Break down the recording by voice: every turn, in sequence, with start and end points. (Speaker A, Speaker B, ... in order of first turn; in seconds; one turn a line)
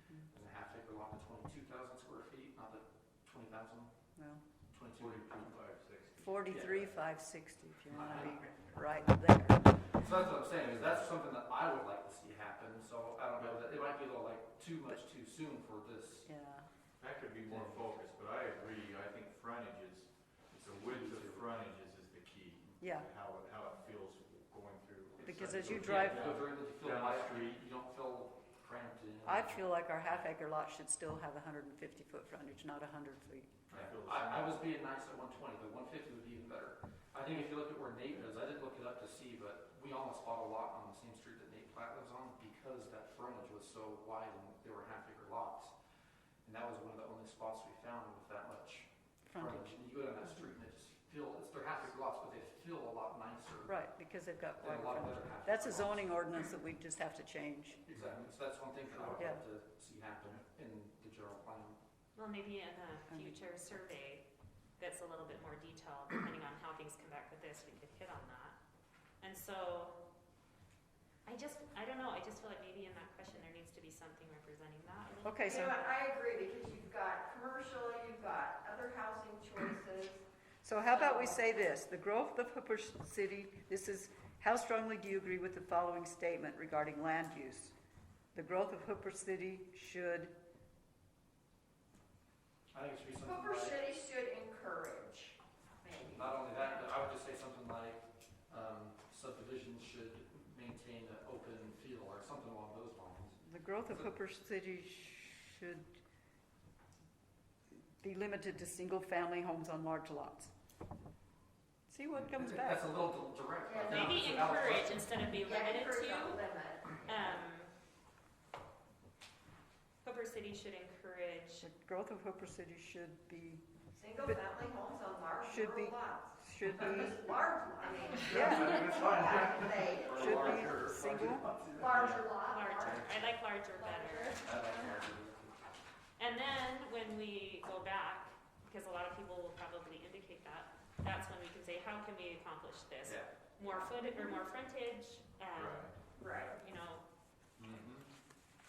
Speaker A: 0.3-3.9
Speaker B: 4.2-4.4
Speaker A: 4.7-5.5
Speaker C: 4.9-6.7
Speaker B: 6.2-9.9
Speaker A: 6.5-6.8
Speaker A: 7.9-8.4
Speaker A: 9.8-16.3
Speaker B: 16.2-16.7
Speaker C: 17.0-27.6
Speaker A: 17.5-17.8
Speaker A: 20.6-21.6
Speaker B: 22.8-23.1
Speaker B: 25.2-26.4
Speaker A: 25.4-29.6
Speaker B: 29.2-33.6
Speaker C: 33.7-34.6
Speaker A: 33.7-45.7
Speaker A: 46.4-53.7
Speaker B: 49.2-50.5
Speaker B: 53.6-57.8
Speaker A: 54.6-56.1
Speaker A: 57.9-61.8
Speaker C: 58.9-59.2
Speaker B: 59.1-59.4
Speaker D: 62.1-64.2
Speaker B: 63.1-63.4
Speaker D: 64.8-68.6
Speaker D: 69.2-70.0
Speaker D: 71.2-75.8
Speaker B: 75.2-75.8
Speaker E: 75.5-80.2
Speaker B: 80.6-87.7
Speaker E: 80.9-81.4
Speaker B: 88.3-90.3
Speaker A: 92.7-93.8
Speaker E: 93.2-96.9
Speaker A: 96.1-103.4
Speaker B: 103.4-105.9
Speaker B: 108.0-110.5
Speaker B: 111.9-112.9
Speaker A: 112.2-115.1
Speaker E: 113.6-114.8
Speaker D: 113.8-116.4
Speaker E: 115.4-117.4
Speaker D: 117.0-117.7
Speaker D: 120.0-121.7
Speaker B: 121.6-123.7
Speaker E: 123.9-130.7
Speaker B: 125.4-127.2
Speaker A: 128.1-132.2
Speaker C: 128.2-132.3
Speaker B: 128.2-129.2
Speaker B: 130.1-131.5
Speaker E: 131.8-133.1
Speaker D: 132.5-134.5
Speaker E: 133.7-135.0
Speaker A: 134.5-135.5
Speaker C: 134.5-135.1
Speaker D: 136.2-145.9
Speaker C: 145.5-145.9
Speaker E: 146.2-146.6
Speaker D: 146.5-147.0
Speaker C: 147.6-148.0